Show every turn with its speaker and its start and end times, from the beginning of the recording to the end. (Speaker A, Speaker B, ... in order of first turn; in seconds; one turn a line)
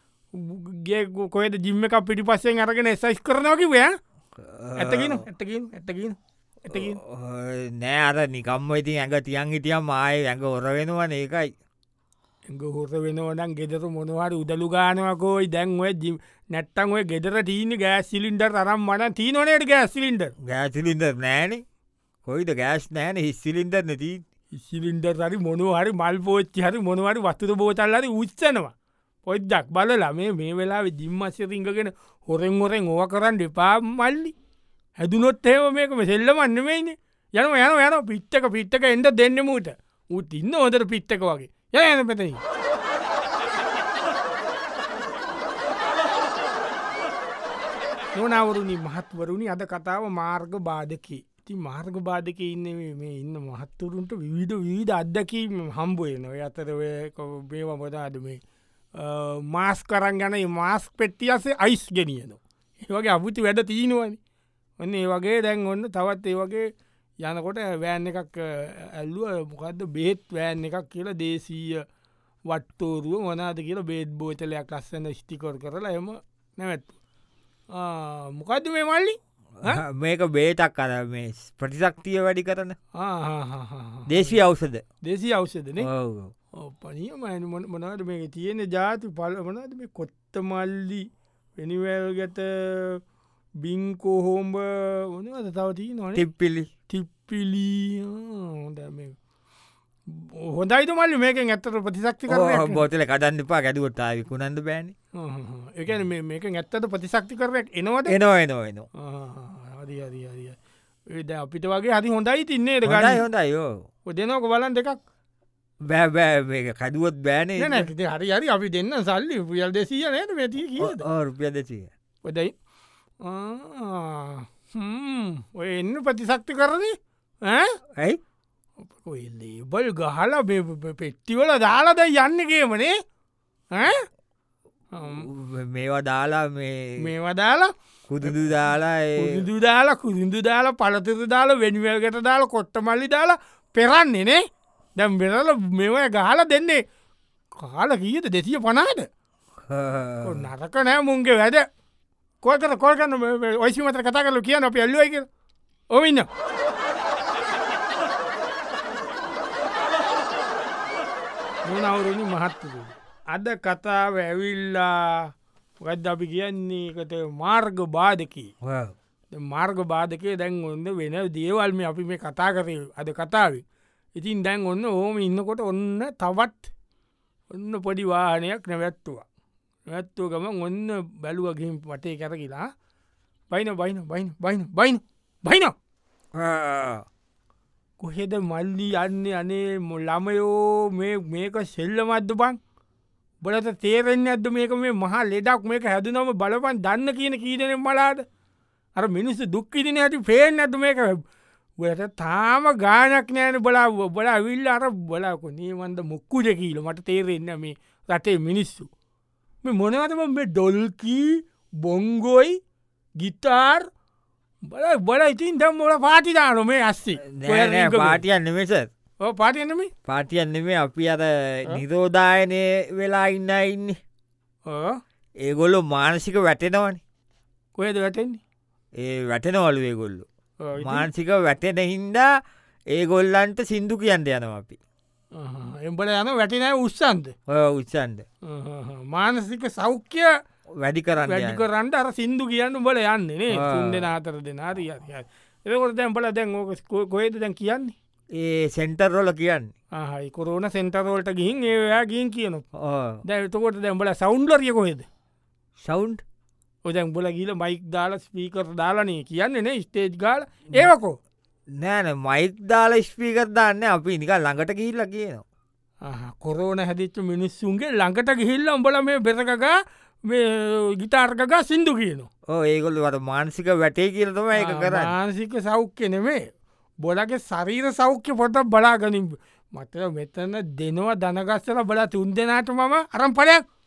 Speaker A: 0.3-3.9
Speaker B: 4.4-5.2
Speaker A: 4.8-7.0
Speaker B: 6.7-11.5
Speaker A: 12.5-20.3
Speaker B: 20.4-21.6
Speaker B: 22.3-24.2
Speaker A: 24.6-28.7
Speaker A: 29.3-34.3
Speaker A: 35.0-42.4
Speaker A: 48.1-58.4
Speaker A: 59.0-64.2
Speaker A: 64.8-66.7
Speaker A: 67.2-71.8
Speaker A: 72.5-77.0
Speaker A: 77.7-79.8
Speaker B: 79.6-82.8
Speaker A: 83.0-84.4
Speaker B: 84.1-84.8
Speaker A: 85.0-85.9
Speaker B: 85.8-86.3
Speaker A: 86.6-91.1
Speaker A: 91.6-93.0
Speaker A: 93.6-96.2
Speaker B: 96.2-96.7
Speaker A: 96.9-99.2
Speaker A: 100.1-102.8
Speaker B: 102.3-104.9
Speaker A: 105.2-108.2
Speaker B: 108.1-108.9
Speaker A: 109.0-110.6
Speaker A: 111.1-113.2
Speaker B: 112.8-113.9
Speaker A: 114.1-115.0
Speaker B: 115.8-117.9
Speaker A: 117.6-121.0
Speaker B: 120.8-121.9
Speaker A: 122.2-122.5
Speaker A: 123.2-127.8
Speaker A: 129.0-132.9
Speaker A: 133.7-134.1
Speaker A: 134.9-135.3
Speaker B: 135.1-137.0
Speaker A: 137.0-138.5
Speaker B: 138.1-139.4
Speaker A: 139.2-144.4
Speaker A: 145.0-146.8
Speaker A: 147.6-149.1
Speaker B: 149.7-150.5
Speaker A: 150.2-151.7
Speaker A: 152.4-155.3
Speaker A: 155.9-156.3
Speaker A: 161.7-168.5
Speaker B: 168.6-168.9
Speaker A: 169.3-173.6
Speaker A: 174.2-176.7
Speaker A: 177.5-179.2
Speaker A: 179.9-182.7
Speaker A: 183.5-185.7
Speaker B: 186.3-187.1
Speaker A: 188.0-192.6
Speaker A: 193.4-198.2
Speaker A: 199.0-201.2
Speaker A: 201.8-208.9
Speaker A: 209.6-212.6
Speaker A: 213.2-213.9
Speaker A: 214.7-218.2
Speaker B: 217.2-218.9
Speaker A: 219.2-219.9
Speaker B: 220.1-224.0
Speaker A: 224.7-225.0
Speaker B: 225.4-227.0
Speaker A: 227.8-228.4
Speaker B: 229.0-230.3
Speaker A: 230.6-231.1
Speaker B: 230.8-232.3
Speaker B: 232.9-234.8
Speaker A: 235.4-237.3
Speaker B: 237.5-238.2
Speaker A: 238.5-240.3
Speaker B: 240.8-241.6
Speaker A: 241.2-247.9
Speaker B: 243.5-244.1
Speaker B: 248.3-249.7
Speaker A: 249.9-252.7
Speaker B: 252.8-253.2
Speaker A: 253.2-255.1
Speaker B: 255.8-256.2
Speaker A: 256.9-261.2
Speaker B: 261.8-265.4
Speaker A: 266.0-272.3
Speaker B: 272.5-275.1
Speaker A: 274.6-276.5
Speaker A: 277.0-283.6